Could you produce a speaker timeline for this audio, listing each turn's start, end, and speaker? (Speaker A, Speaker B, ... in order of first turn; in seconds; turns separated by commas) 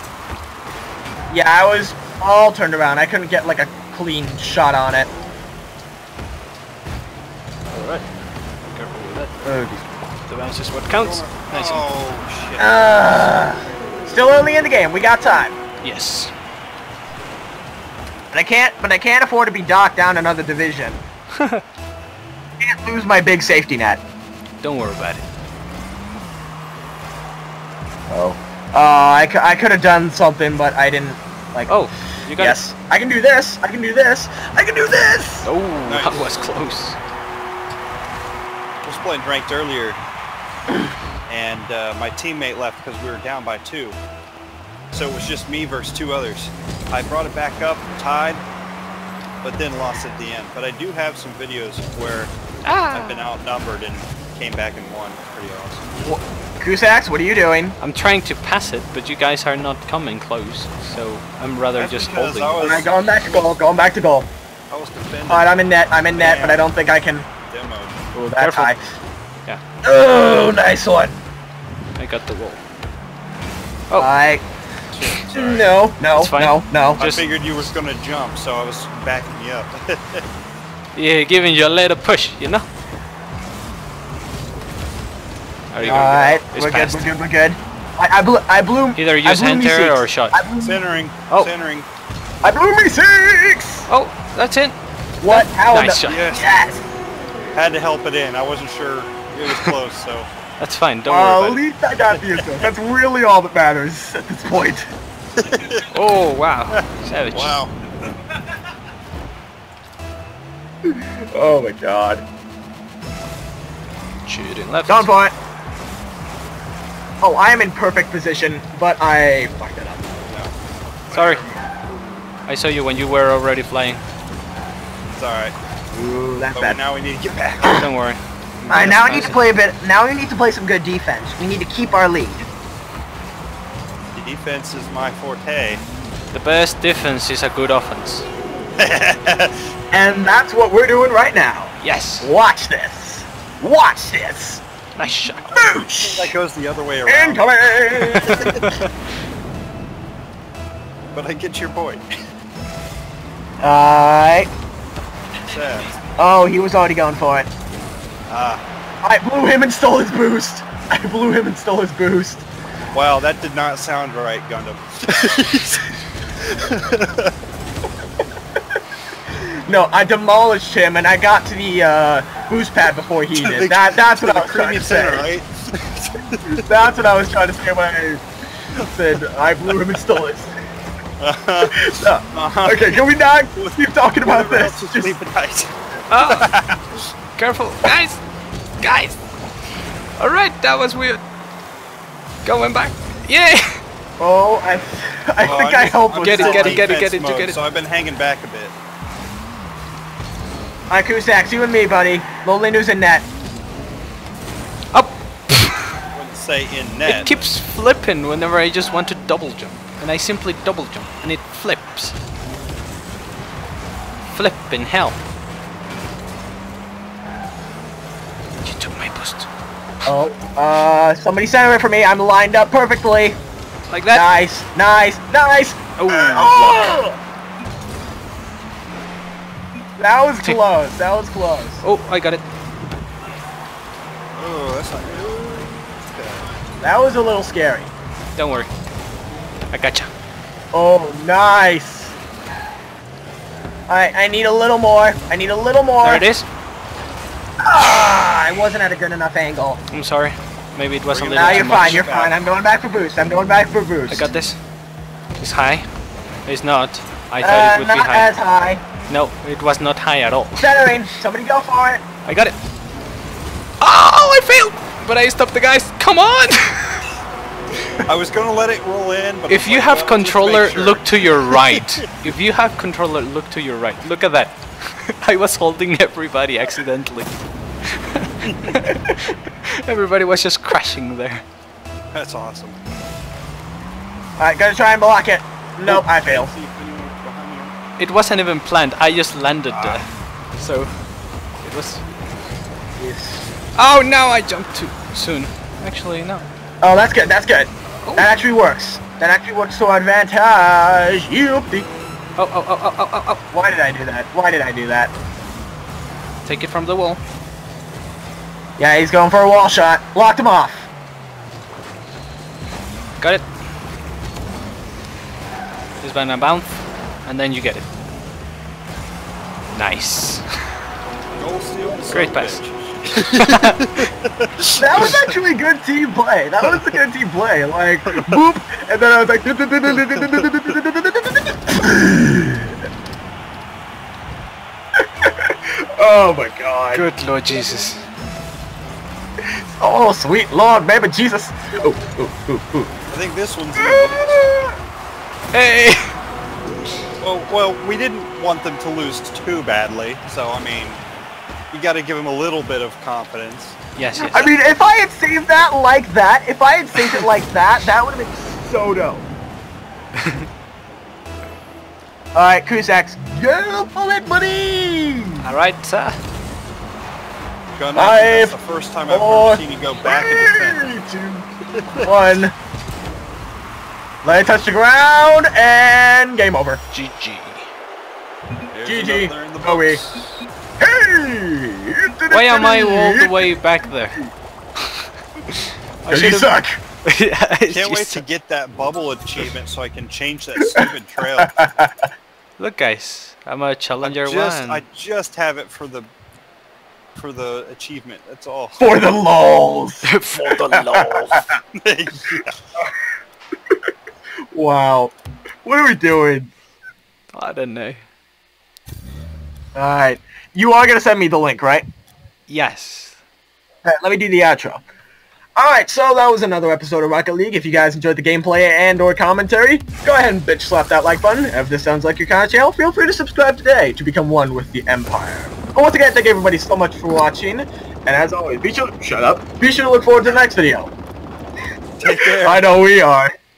Speaker A: 1.3-5.1, Speaker B: 7.7-8.1, Speaker B: 8.7-9.3, Speaker A: 9.4-9.9, Speaker B: 10.3-11.8, Speaker C: 10.9-12.9, Speaker A: 12.6-15.6, Speaker B: 15.8-16.3, Speaker A: 18.3-21.0, Speaker A: 22.6-24.0, Speaker B: 24.6-25.2, Speaker A: 28.1-31.8, Speaker B: 31.7-32.6, Speaker A: 32.4-35.5, Speaker B: 35.4-37.0, Speaker C: 35.9-36.5, Speaker C: 38.8-40.0, Speaker C: 41.3-44.0, Speaker C: 44.9-48.4, Speaker C: 49.4-52.3, Speaker B: 52.6-53.2, Speaker C: 52.9-55.8, Speaker A: 56.0-57.8, Speaker B: 57.8-62.6, Speaker C: 61.8-63.6, Speaker A: 62.6-64.3, Speaker C: 64.7-65.5, Speaker A: 65.3-67.3, Speaker C: 66.1-66.7, Speaker C: 67.4-68.0, Speaker A: 68.2-68.8, Speaker B: 68.4-68.8, Speaker A: 69.8-71.2, Speaker B: 72.0-72.6, Speaker A: 73.9-74.5, Speaker C: 74.9-75.7, Speaker A: 75.3-77.0, Speaker B: 76.1-77.2, Speaker C: 77.0-80.2, Speaker B: 80.9-82.7, Speaker B: 85.7-87.1, Speaker C: 85.8-86.4, Speaker A: 85.9-90.8, Speaker B: 88.9-90.4, Speaker C: 90.6-91.9, Speaker A: 92.4-93.9, Speaker B: 93.9-96.2, Speaker A: 95.2-96.8, Speaker C: 96.1-96.5, Speaker C: 97.5-100.3, Speaker B: 100.6-101.6, Speaker A: 101.1-104.9, Speaker C: 102.2-102.6, Speaker C: 105.4-105.9, Speaker B: 105.9-107.6, Speaker C: 107.3-107.7, Speaker A: 110.9-112.2, Speaker B: 114.2-115.1, Speaker A: 114.9-115.3, Speaker A: 117.2-120.1, Speaker C: 121.1-121.5, Speaker B: 121.1-121.4, Speaker B: 122.5-124.0, Speaker C: 125.1-125.6, Speaker A: 125.9-126.8, Speaker C: 126.5-127.8, Speaker B: 127.7-129.4, Speaker A: 128.7-132.5, Speaker C: 134.2-135.8, Speaker B: 136.3-138.3, Speaker C: 138.8-139.6, Speaker A: 139.9-144.6, Speaker B: 141.8-142.3, Speaker B: 144.9-145.6, Speaker A: 145.5-146.3, Speaker C: 146.0-148.8, Speaker A: 147.1-148.3, Speaker B: 148.2-148.8, Speaker C: 151.1-152.0, Speaker A: 153.6-154.5, Speaker C: 155.4-155.9, Speaker A: 156.2-157.5, Speaker C: 158.3-158.6, Speaker A: 159.0-162.4, Speaker C: 162.9-167.3, Speaker A: 169.4-175.3, Speaker C: 173.3-176.6, Speaker A: 176.6-178.2, Speaker A: 178.8-180.5, Speaker C: 181.2-181.8, Speaker A: 181.6-185.2, Speaker C: 182.3-183.0, Speaker C: 183.6-186.8, Speaker B: 186.1-186.5, Speaker B: 187.4-188.2, Speaker B: 188.8-189.2, Speaker B: 190.2-191.2, Speaker B: 192.4-193.8, Speaker A: 194.2-196.9, Speaker C: 195.4-198.8, Speaker B: 196.2-197.6, Speaker A: 200.9-203.2, Speaker B: 204.9-205.9, Speaker C: 206.1-207.5, Speaker B: 207.1-212.2, Speaker B: 214.3-215.2, Speaker B: 218.6-219.5, Speaker A: 220.1-223.4, Speaker B: 223.9-224.3, Speaker A: 224.1-227.2, Speaker B: 226.0-227.0, Speaker A: 230.0-231.8, Speaker B: 231.8-232.4, Speaker C: 234.3-236.5, Speaker A: 236.8-237.9, Speaker B: 238.4-238.7, Speaker B: 239.7-240.1, Speaker A: 240.7-242.1, Speaker A: 243.9-246.2, Speaker B: 246.0-246.5, Speaker A: 247.7-249.8, Speaker B: 249.9-252.0, Speaker C: 251.1-252.4, Speaker A: 251.3-254.3, Speaker B: 254.1-254.6, Speaker B: 255.4-255.9, Speaker B: 256.4-258.3, Speaker A: 257.4-258.8, Speaker B: 259.1-261.1, Speaker A: 260.6-262.0, Speaker B: 262.2-262.6, Speaker B: 263.8-267.1, Speaker C: 268.1-272.0, Speaker B: 269.5-277.3, Speaker B: 277.9-281.4, Speaker C: 278.4-278.7, Speaker C: 282.1-282.8, Speaker A: 284.4-286.5, Speaker C: 285.8-287.8, Speaker B: 288.0-290.1, Speaker C: 289.7-290.0, Speaker B: 290.6-290.9, Speaker B: 291.6-292.0, Speaker A: 293.0-293.5, Speaker B: 293.8-296.5, Speaker A: 296.8-301.9, Speaker B: 302.4-303.4, Speaker A: 303.5-305.1, Speaker B: 306.4-307.2, Speaker A: 308.8-310.9, Speaker B: 313.2-313.4, Speaker B: 316.0-317.9, Speaker B: 319.7-320.4, Speaker C: 321.4-325.3, Speaker B: 322.1-324.1, Speaker A: 324.8-332.7, Speaker C: 326.7-326.9, Speaker C: 328.1-328.4, Speaker C: 329.9-330.5, Speaker A: 335.2-337.7, Speaker B: 336.9-338.0, Speaker A: 339.7-342.9, Speaker C: 343.1-344.5, Speaker A: 343.8-344.7, Speaker B: 345.5-346.2, Speaker C: 347.2-351.0, Speaker C: 351.7-353.8, Speaker B: 353.9-354.5, Speaker A: 354.3-359.3, Speaker A: 362.3-365.5, Speaker B: 365.4-366.2, Speaker C: 367.8-370.9, Speaker A: 367.9-368.6, Speaker A: 369.1-371.4, Speaker C: 371.7-372.1, Speaker A: 372.0-372.6, Speaker A: 374.2-376.8, Speaker B: 376.9-377.7, Speaker C: 378.7-380.2, Speaker A: 378.8-380.0, Speaker A: 380.8-383.6, Speaker B: 382.3-384.2, Speaker B: 386.1-386.5, Speaker A: 386.1-386.8, Speaker B: 387.1-388.2, Speaker C: 387.7-391.6, Speaker A: 390.6-392.1, Speaker B: 392.6-394.8, Speaker C: 394.0-396.1, Speaker C: 397.2-398.9, Speaker A: 398.8-401.4, Speaker B: 400.0-401.4, Speaker C: 401.8-402.6, Speaker A: 404.5-405.1, Speaker A: 405.6-406.5, Speaker B: 407.3-408.0, Speaker A: 409.7-411.8, Speaker B: 412.5-413.2, Speaker A: 413.8-414.8, Speaker A: 415.6-430.9, Speaker C: 432.0-432.7, Speaker A: 432.1-433.3